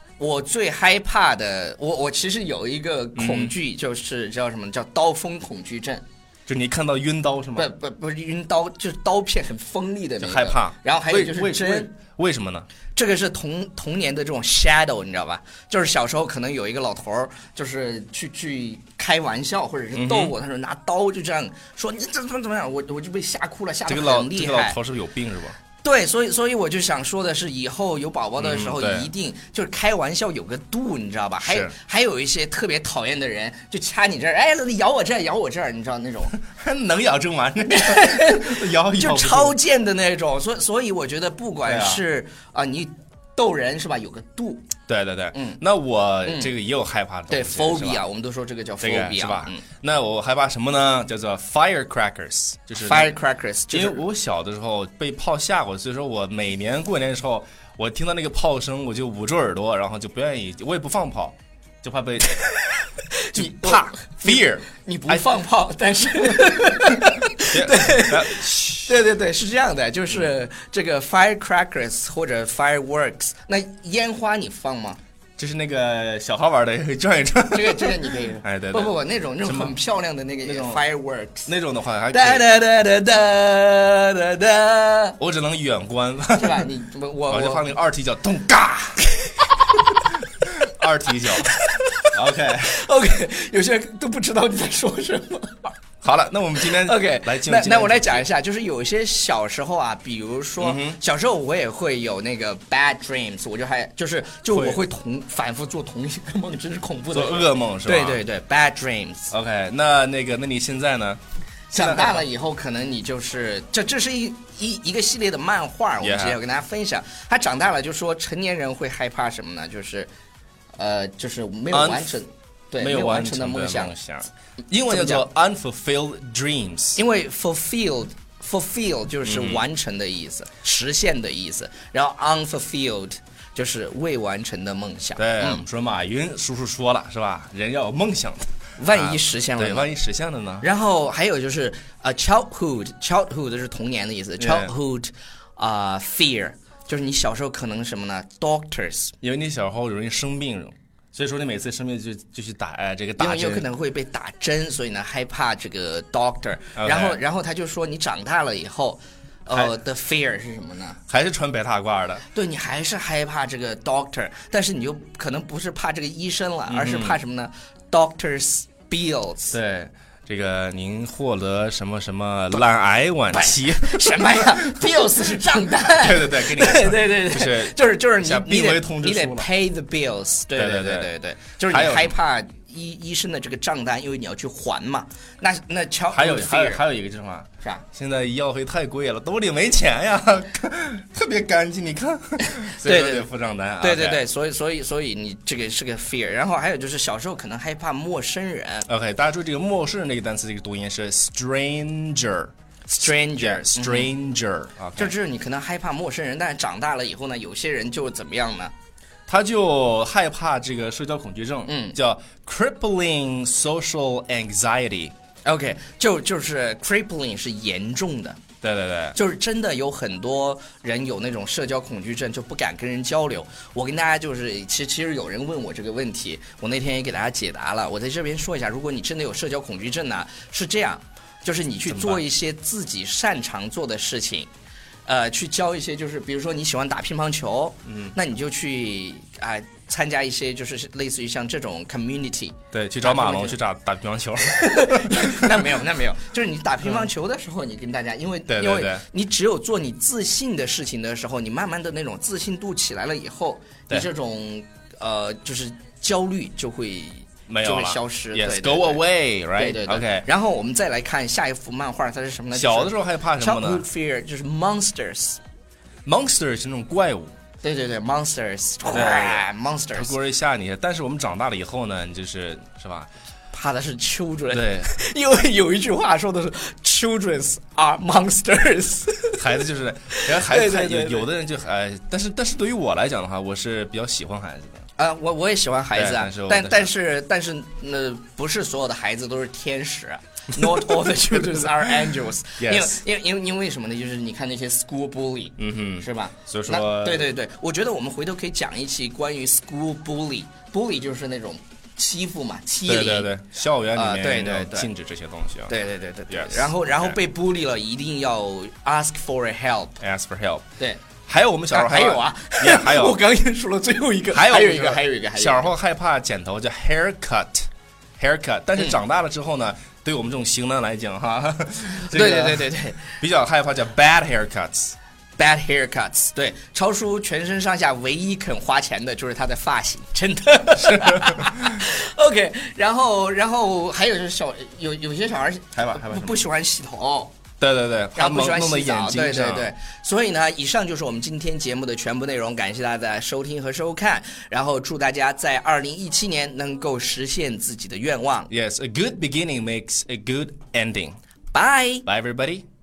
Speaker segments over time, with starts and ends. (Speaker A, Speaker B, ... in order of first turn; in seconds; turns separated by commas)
Speaker A: 0.2-6.0, Speaker B: 3.1-3.5, Speaker B: 6.5-7.7, Speaker A: 7.6-11.9, Speaker B: 10.2-12.7, Speaker A: 12.9-24.8, Speaker B: 19.9-20.4, Speaker B: 23.9-25.6, Speaker A: 25.8-36.3, Speaker B: 28.4-29.1, Speaker B: 31.4-31.7, Speaker B: 36.3-39.6, Speaker A: 37.7-44.7, Speaker B: 41.6-42.0, Speaker B: 44.9-48.0, Speaker A: 45.3-45.6, Speaker A: 47.3-49.6, Speaker B: 48.8-53.2, Speaker A: 52.8-54.0, Speaker B: 53.7-62.5, Speaker A: 63.2-75.0, Speaker B: 63.3-65.3, Speaker B: 67.1-69.0, Speaker B: 75.4-79.8, Speaker A: 77.5-81.5, Speaker B: 80.4-80.8, Speaker B: 81.5-82.5, Speaker A: 82.1-85.2, Speaker B: 85.2-86.7, Speaker A: 86.4-87.7, Speaker B: 87.3-89.1, Speaker B: 90.4-91.5, Speaker A: 91.4-95.8, Speaker B: 92.1-92.8, Speaker B: 96.0-98.3, Speaker A: 96.7-109.3, Speaker B: 100.6-101.0, Speaker B: 104.5-104.8, Speaker B: 107.1-108.2, Speaker B: 109.3-111.2, Speaker A: 111.7-120.1, Speaker B: 111.7-112.2, Speaker B: 116.0-116.4, Speaker A: 120.8-123.9, Speaker B: 121.7-122.2, Speaker B: 122.8-127.0, Speaker A: 124.9-125.2, Speaker A: 127.0-135.6, Speaker B: 129.2-129.6, Speaker B: 135.2-140.7, Speaker A: 138.8-139.9, Speaker A: 140.6-149.1, Speaker B: 144.4-144.7, Speaker B: 149.2-153.7, Speaker A: 153.2-161.0, Speaker B: 156.8-157.2, Speaker B: 161.1-162.2, Speaker A: 162.3-169.6, Speaker B: 166.7-167.2, Speaker B: 169.5-174.9, Speaker A: 173.3-186.8, Speaker B: 175.8-179.5, Speaker B: 180.6-181.1, Speaker B: 181.6-182.1, Speaker B: 186.1-194.2, Speaker A: 192.7-193.3, Speaker A: 193.8-198.9, Speaker B: 198.9-205.2, Speaker A: 202.9-204.1, Speaker A: 205.0-208.7, Speaker B: 209.3-215.1, Speaker A: 211.7-212.0, Speaker A: 215.4-218.4, Speaker B: 218.6-219.2, Speaker A: 219.1-234.5, Speaker B: 231.9-232.2, Speaker A: 235.1-243.6, Speaker B: 237.9-238.1, Speaker B: 242.7-245.8, Speaker A: 244.5-259.0, Speaker B: 246.8-247.1, Speaker B: 248.5-249.1, Speaker B: 257.5-260.3, Speaker A: 259.6-265.4, Speaker B: 262.5-263.9, Speaker B: 266.1-267.3, Speaker A: 267.6-270.1, Speaker B: 268.9-273.1, Speaker A: 273.5-279.4, Speaker B: 274.5-274.9, Speaker B: 279.4-284.9, Speaker A: 280.2-281.3, Speaker A: 285.0-303.3, Speaker B: 285.9-286.9, Speaker B: 292.6-293.0, Speaker B: 295.6-297.3, Speaker B: 302.9-305.8, Speaker A: 303.9-304.9, Speaker A: 305.7-310.0, Speaker B: 306.3-307.2, Speaker B: 310.0-310.6, Speaker B: 311.3-313.2, Speaker A: 311.7-315.7, Speaker B: 314.3-317.7, Speaker B: 318.2-324.9, Speaker A: 322.1-323.1, Speaker A: 325.4-337.3, Speaker B: 330.8-331.9, Speaker B: 335.8-336.4, Speaker B: 337.6-339.7, Speaker A: 338.2-348.5, Speaker B: 348.5-351.2, Speaker A: 351.5-352.1, Speaker B: 352.1-352.7